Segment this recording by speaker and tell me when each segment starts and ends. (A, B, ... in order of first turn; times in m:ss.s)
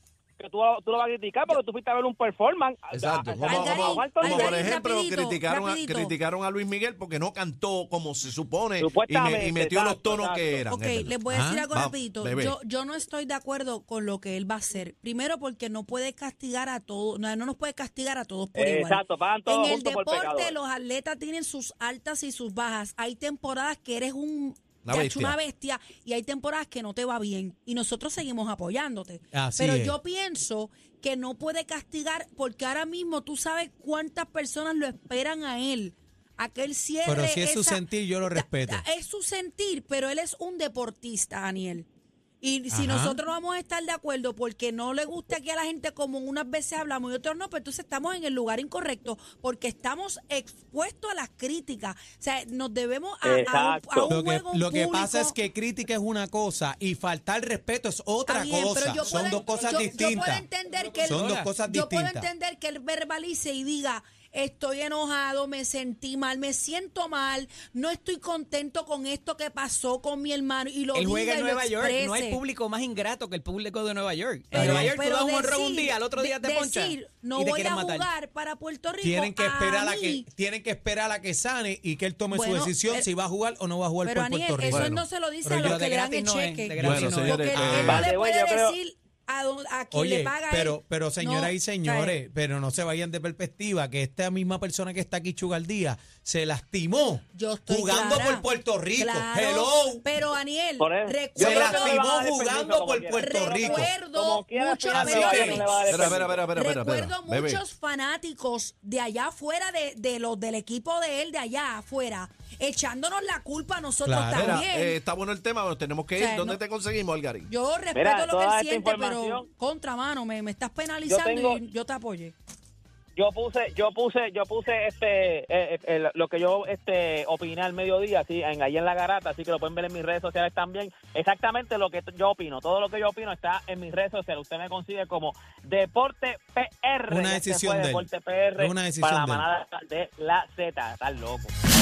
0:00.4-0:04.8 A
0:02.9-0:11.2 B
0:03.5-0:06.1 C
0:08.8-0:10.6 A
0:10.7-0:41.9 C
0:11.3-0:11.7 D
0:11.7-0:12.6 B
0:18.5-0:20.5 A
0:24.8-0:25.4 B
0:29.3-0:29.9 D
0:37.0-0:38.8 D
0:42.4-0:55.4 C
0:42.7-0:43.2 D
0:53.2-0:54.2 A
0:54.1-1:00.4 D
0:58.3-1:12.4 C
1:00.9-1:01.5 E
1:01.0-1:02.3 D
1:10.9-1:18.1 E
1:14.5-1:20.3 C
1:14.5-1:15.0 D
1:19.0-1:25.9 D
1:22.3-1:23.1 C
1:24.0-1:32.2 C
1:24.7-1:25.0 B
1:25.5-1:27.9 E
1:26.8-1:28.1 B
1:26.8-1:27.2 D
1:27.8-1:28.7 A
1:29.9-1:40.0 D
1:37.3-1:42.0 C
1:40.8-1:46.4 A
1:41.4-1:43.9 D
1:43.2-1:55.0 C
1:44.9-1:45.8 D
1:45.8-1:47.6 B
1:54.0-1:54.6 D
1:54.3-1:57.5 B
1:56.2-1:56.6 C
1:57.5-2:02.3 C
1:57.9-1:59.5 A
2:01.1-2:01.6 A
2:03.2-2:21.5 A
2:17.1-2:18.0 D
2:18.6-2:19.5 D